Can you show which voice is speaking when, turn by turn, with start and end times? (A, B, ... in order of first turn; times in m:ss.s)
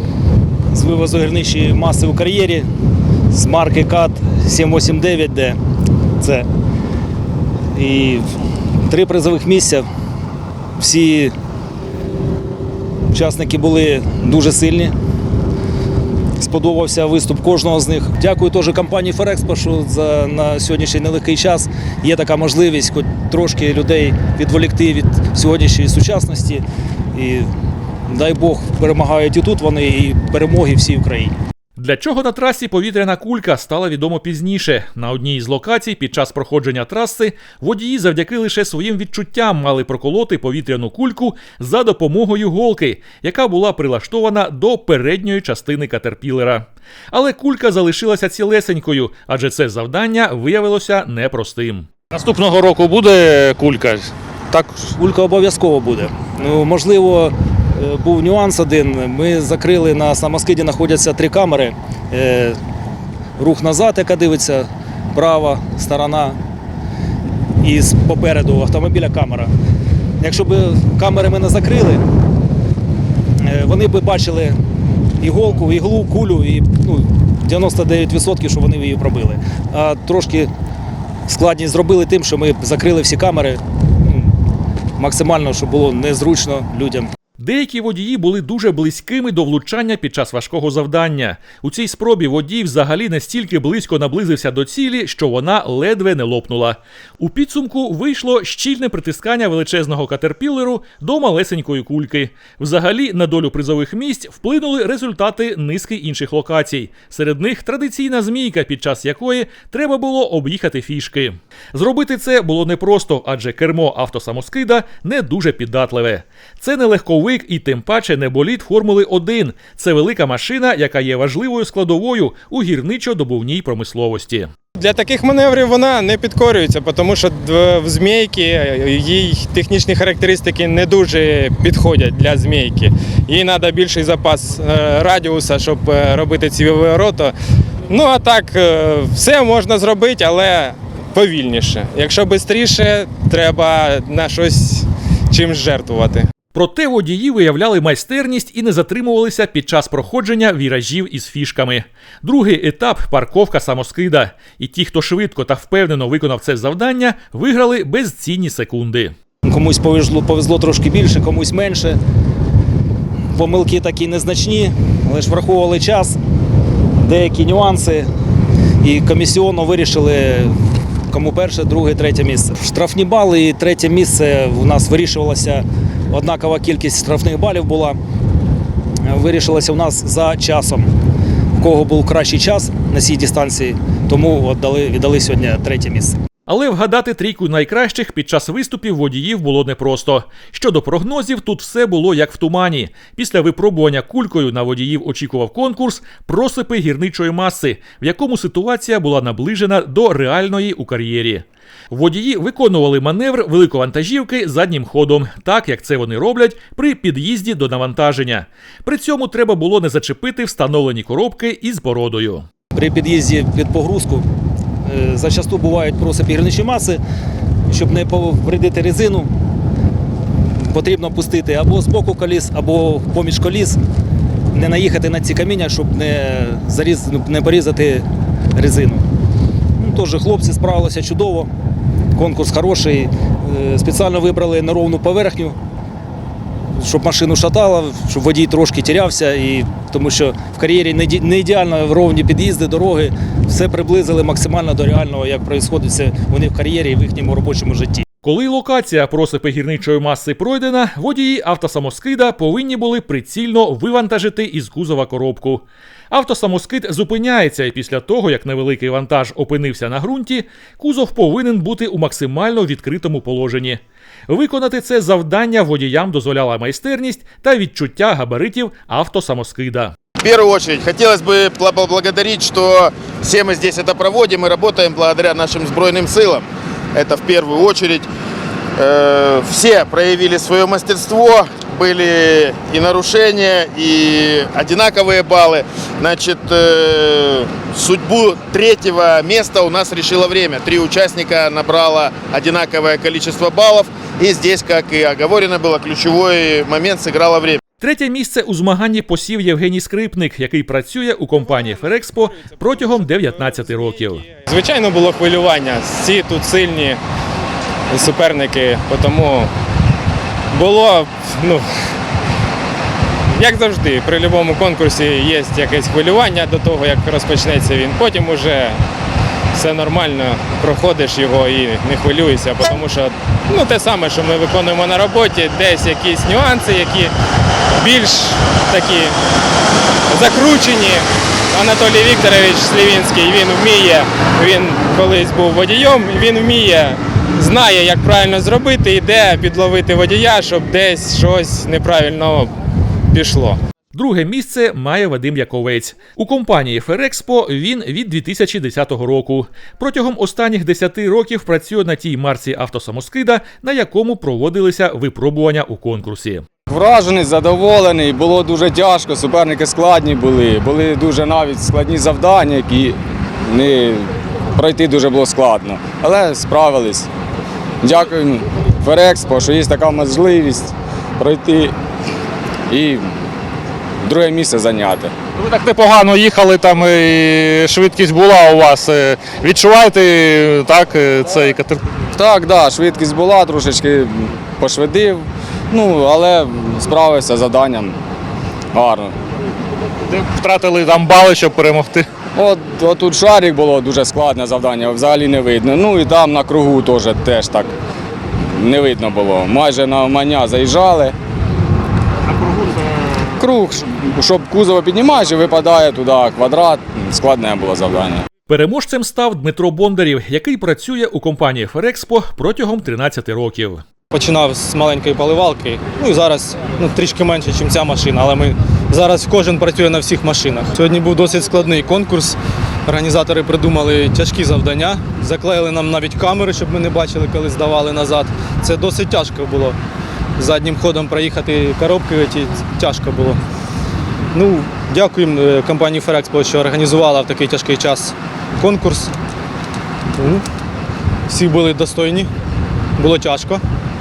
0:00.7-0:02.6 A
0:03.3-0:05.6 A
0:06.2-0:06.5 A
0:07.8-0:08.2 A
0:08.8-0:09.9 A
0:10.8-0:11.3 A
0:13.1-0:14.9 A
0:16.4-0:26.6 A
0:27.2-0:27.5 A
0:28.1-0:31.4 A
0:31.8-0:51.9 B
0:52.1-0:54.9 C
0:55.0-1:02.6 A
1:03.4-1:06.4 A
1:07.6-1:09.5 A
1:10.2-1:12.0 A
1:13.4-1:14.6 A
1:15.2-1:20.5 A
1:21.3-1:24.3 A
1:25.0-1:27.1 A
1:27.4-2:04.5 B
2:04.8-2:17.3 D
2:17.9-2:26.2 D
2:26.5-2:39.1 B
2:39.4-2:42.0 A
2:43.4-2:46.2 A
2:47.0-2:48.1 A
2:48.8-2:50.6 A
2:51.1-2:58.0 A
2:59.1-3:00.9 A
3:01.6-3:06.2 A
3:06.5-3:32.5 B
3:32.7-3:34.2 A
3:34.9-3:37.0 A
3:37.7-3:39.3 A
3:40.5-3:43.8 A
3:44.5-3:49.0 A
3:49.8-3:51.5 A
3:52.2-3:55.6 A
3:56.8-4:08.0 A
4:08.2-4:29.9 B
4:30.2-4:38.1 E
4:38.8-4:57.6 E
4:57.8-5:04.2 B
5:01.6-5:07.0 D
5:07.9-5:09.5 D
5:10.5-5:11.6 D
5:13.4-5:18.8 D
5:19.5-5:27.1 D
5:27.8-5:29.2 D
5:30.1-5:42.5 D
5:43.1-5:43.6 D
5:43.9-5:56.4 B
5:56.7-6:07.1 F
6:07.8-6:11.7 F
6:12.7-6:13.1 F
6:14.0-6:15.1 F
6:15.4-6:21.8 C
6:22.1-6:28.0 F
6:28.7-6:29.2 F
6:30.1-6:32.1 C
6:32.3-6:37.7 F
6:38.5-6:41.2 F
6:43.4-6:48.2 F
6:48.5-6:53.8 B
6:54.1-7:09.8 G
7:10.4-7:13.4 G
7:14.3-7:19.1 G
7:20.1-7:20.4 G
7:21.3-7:22.3 G
7:23.0-7:23.6 G